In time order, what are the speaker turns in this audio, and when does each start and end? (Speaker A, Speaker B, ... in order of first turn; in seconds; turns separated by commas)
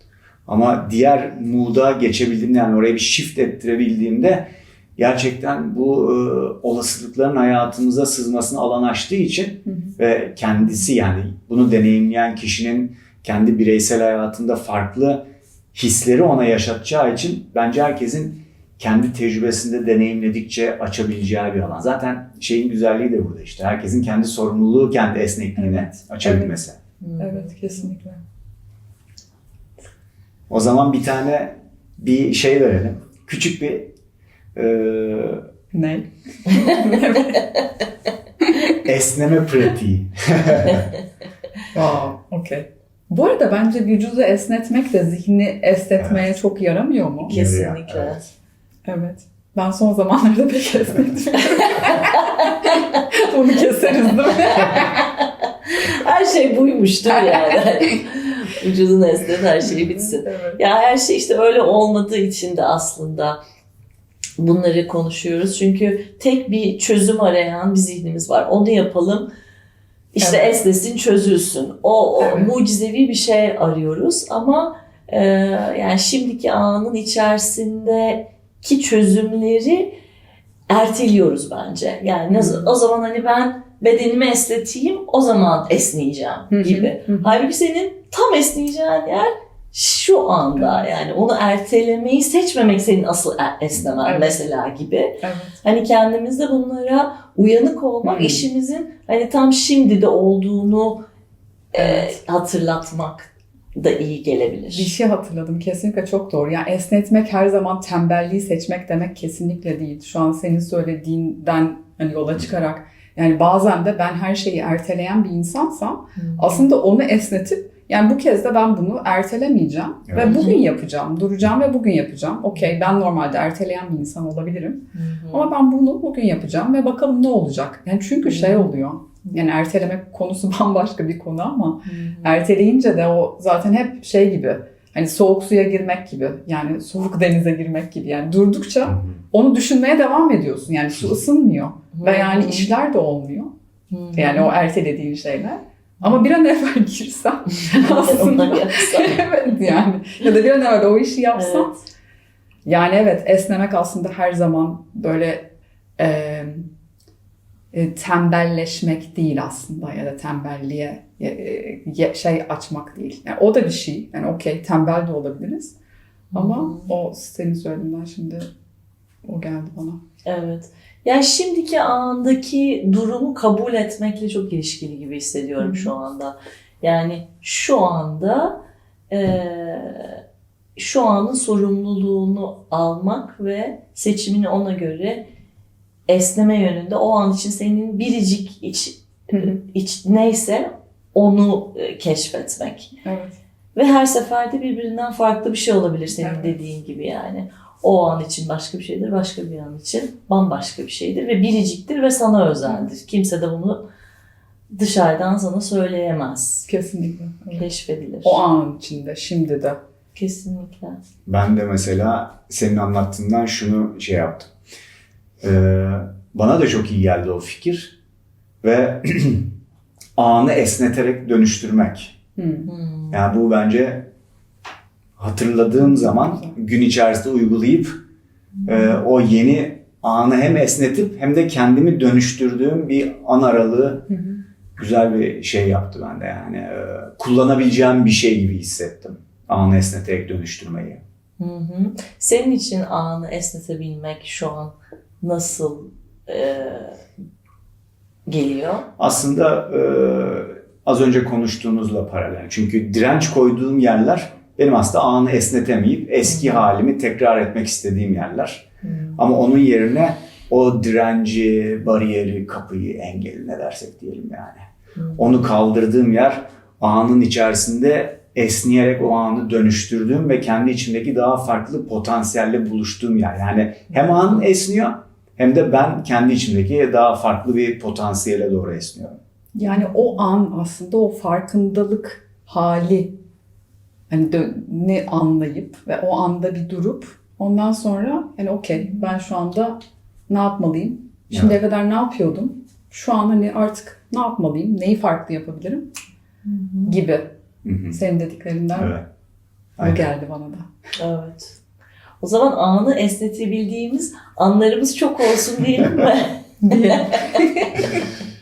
Speaker A: 0.5-26.8, Speaker B: 9.7-9.9, Speaker B: 25.6-26.5, Speaker C: 27.0-27.9, Speaker B: 27.2-28.2, Speaker A: 30.5-33.9, Speaker A: 34.5-35.5, Speaker B: 35.7-37.5, Speaker C: 36.5-37.4, Speaker A: 38.8-40.9, Speaker B: 41.7-47.4, Speaker A: 46.0-46.2, Speaker A: 47.3-48.3, Speaker C: 47.3-48.2, Speaker B: 48.8-55.1, Speaker C: 51.5-53.0, Speaker C: 54.3-63.4, Speaker B: 59.6-60.6, Speaker C: 64.4-69.3, Speaker C: 70.1-79.9, Speaker B: 70.2-70.6, Speaker B: 72.2-72.5, Speaker C: 80.7-101.0, Speaker B: 82.3-82.7, Speaker B: 86.5-87.3, Speaker B: 90.6-90.9, Speaker B: 94.0-94.4, Speaker B: 95.2-95.6, Speaker B: 98.0-98.4, Speaker C: 101.7-104.9, Speaker B: 101.8-102.1, Speaker B: 104.7-143.5, Speaker C: 116.2-116.7, Speaker A: 120.1-120.4, Speaker C: 120.2-120.7, Speaker C: 124.9-125.5, Speaker C: 128.2-128.7, Speaker C: 131.8-132.4, Speaker C: 141.9-142.7, Speaker C: 143.9-144.5, Speaker B: 144.1-151.8, Speaker C: 147.5-149.3, Speaker C: 151.3-151.7, Speaker B: 152.6-156.7, Speaker B: 157.7-165.8, Speaker C: 166.3-166.9, Speaker B: 166.3-168.5, Speaker B: 169.2-170.0, Speaker C: 170.2-180.2, Speaker B: 175.6-175.9, Speaker C: 180.8-185.3, Speaker C: 186.1-192.9, Speaker B: 193.0-193.4, Speaker C: 193.7-203.8, Speaker B: 196.2-196.6, Speaker C: 204.7-206.7, Speaker B: 206.7-207.7, Speaker C: 207.5-208.4, Speaker B: 208.2-209.8, Speaker C: 210.1-211.0, Speaker A: 211.2-214.5, Speaker A: 215.4-217.9, Speaker A: 218.6-219.5, Speaker A: 220.2-222.2, Speaker B: 222.3-222.7, Speaker C: 222.7-223.1, Speaker A: 223.1-224.1, Speaker A: 225.2-228.0, Speaker B: 225.8-226.6, Speaker A: 228.7-234.1, Speaker B: 234.1-234.4, Speaker A: 234.8-241.0, Speaker C: 241.4-247.0, Speaker C: 248.2-248.9, Speaker A: 249.0-279.2, Speaker C: 256.2-256.7, Speaker C: 258.8-259.2, Speaker C: 265.0-265.3, Speaker C: 274.1-274.4, Speaker B: 279.5-283.2, Speaker B: 284.1-295.9, Speaker C: 296.4-297.0, Speaker B: 296.9-297.3, Speaker A: 297.6-298.0, Speaker B: 297.9-298.9, Speaker A: 298.7-299.0, Speaker A: 299.8-300.1, Speaker B: 299.8-300.7, Speaker C: 301.0-301.6, Speaker C: 302.2-307.4, Speaker B: 306.6-308.0